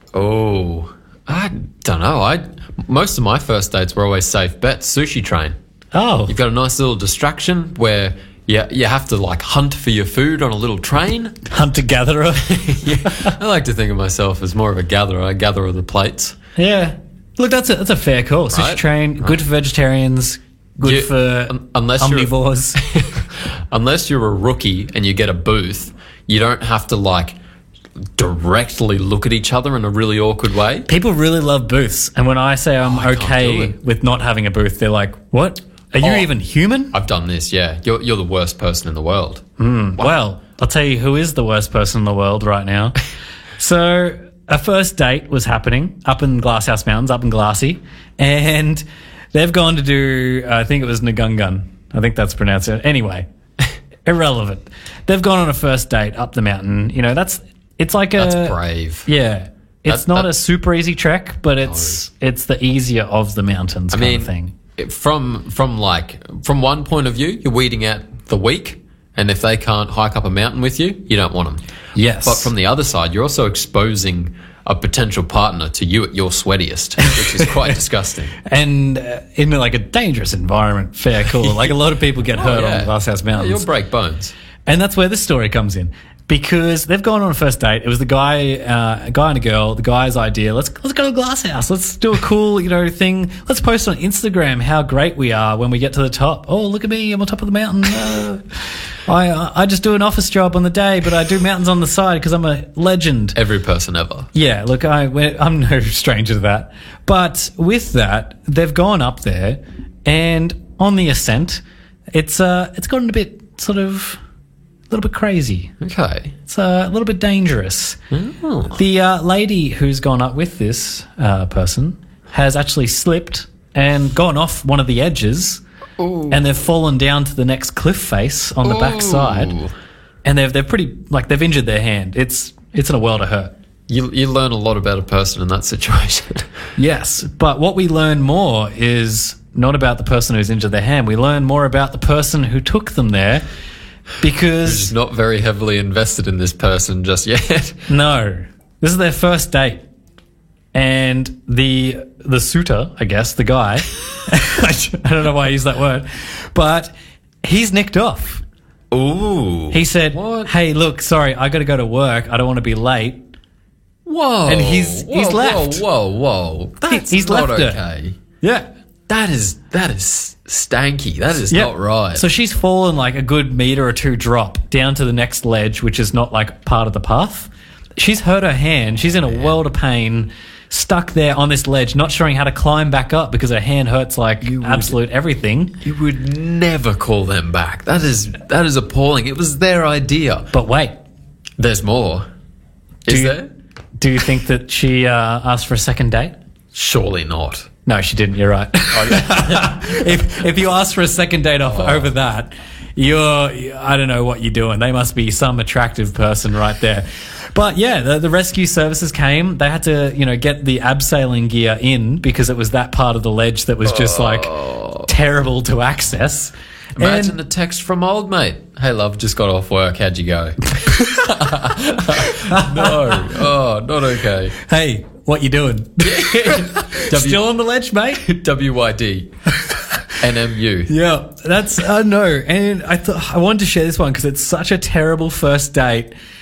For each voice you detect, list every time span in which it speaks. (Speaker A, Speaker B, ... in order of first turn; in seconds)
Speaker A: 0.1-5.5, 6.3-11.4, 12.4-16.4, 18.5-19.4, 20.8-27.4, 28.1-30.9, 32.8-33.7, 36.0-36.3, 36.9-39.4, 58.2-59.1, 59.9-60.3, 61.6-62.0, 63.9-71.6, 72.2-78.3, 81.4-81.7, 82.3-84.3, 103.3-104.3, 115.8-116.3, 118.1-118.8, 126.0-126.4, 128.6-129.7, 133.9-136.5, 144.6-147.8, 158.9-160.5, 164.1-168.2, 169.1-172.2, 184.4-184.9, 185.8-190.5, 191.6-192.2, 193.0-193.5, 196.7-197.7, 198.9-200.0, 201.6-202.1, 213.8-215.1, 216.9-224.5, 226.0-227.4, 228.2-229.3, 230.2-230.9
Speaker B: 5.9-6.3, 11.5-13.3, 16.6-22.8, 30.9-36.9, 39.6-43.0, 43.6-53.2, 54.0-64.5, 71.9-72.5, 77.0-77.7, 78.4-83.7, 84.7-98.4, 99.1-103.3, 104.3-111.6, 112.1-114.2, 114.9-115.7, 116.5-118.0, 118.8-125.6, 126.3-129.6, 130.2-133.5, 136.8-143.4, 144.2-144.9, 147.9-149.8, 150.7-156.9, 157.4-158.4, 159.7-163.2, 164.4-165.8, 166.9-167.8, 168.4-168.7, 171.5-185.8, 190.5-190.9, 193.1-193.4, 194.0-196.3, 197.8-217.4, 220.8-221.6, 222.1-223.5, 224.6-228.2, 229.6-230.1, 230.9-236.1